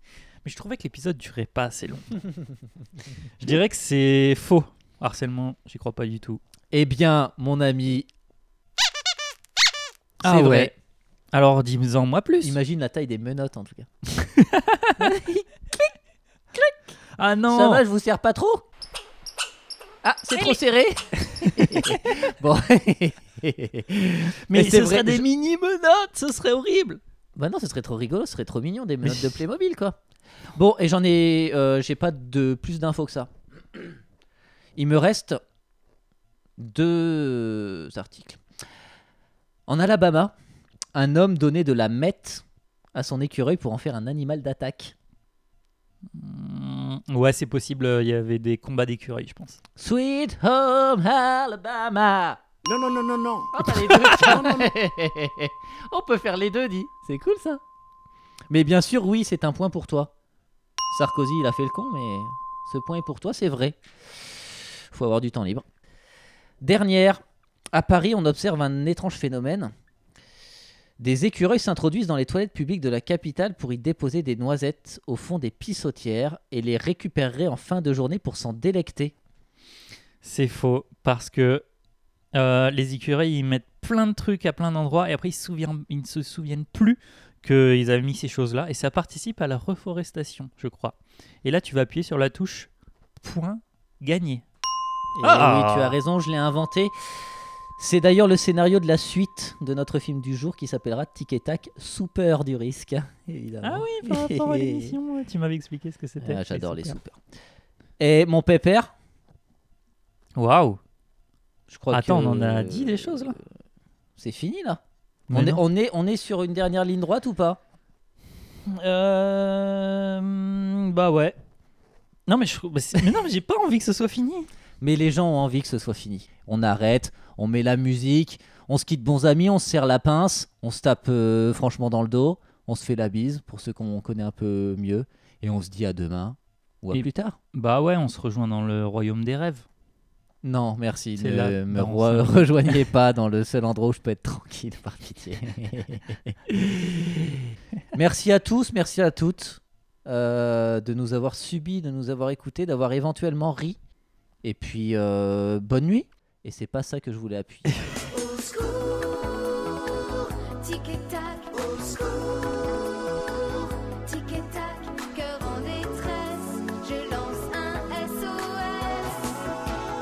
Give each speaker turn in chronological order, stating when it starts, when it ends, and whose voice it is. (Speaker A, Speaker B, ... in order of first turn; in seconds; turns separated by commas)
Speaker A: 0.4-2.2, Speaker A: 3.4-6.4, Speaker B: 6.7-8.1, Speaker B: 10.2-10.7, Speaker A: 10.2-10.7, Speaker A: 11.3-12.6, Speaker B: 12.4-13.9, Speaker A: 14.2-15.1, Speaker B: 15.0-15.8, Speaker A: 17.2-17.8, Speaker B: 17.5-18.6, Speaker B: 20.0-25.3, Speaker A: 21.3-22.0, Speaker A: 24.5-27.0, Speaker B: 27.3-30.0, Speaker B: 30.5-33.9, Speaker B: 34.8-35.4, Speaker B: 36.6-38.4, Speaker B: 39.7-40.4, Speaker B: 40.9-44.9, Speaker A: 46.1-49.6, Speaker B: 49.8-52.4, Speaker C: 52.6-54.7, Speaker B: 53.5-57.6, Speaker B: 58.5-60.1, Speaker B: 60.9-65.7, Speaker B: 66.6-69.7, Speaker B: 71.0-79.1, Speaker A: 80.2-81.6, Speaker A: 82.3-94.4, Speaker B: 95.2-96.9, Speaker A: 95.2-96.0, Speaker B: 97.8-105.0, Speaker A: 103.6-107.0, Speaker B: 106.2-107.2, Speaker B: 108.0-108.9, Speaker A: 110.3-110.8, Speaker B: 111.7-113.4, Speaker A: 111.9-113.4, Speaker B: 114.2-117.6, Speaker A: 115.3-115.6, Speaker A: 118.7-121.3, Speaker A: 122.3-124.5, Speaker B: 124.8-137.3, Speaker A: 136.9-139.7, Speaker B: 140.4-147.4, Speaker A: 141.2-142.8, Speaker B: 147.9-153.8, Speaker B: 154.4-157.8, Speaker D: 158.1-169.4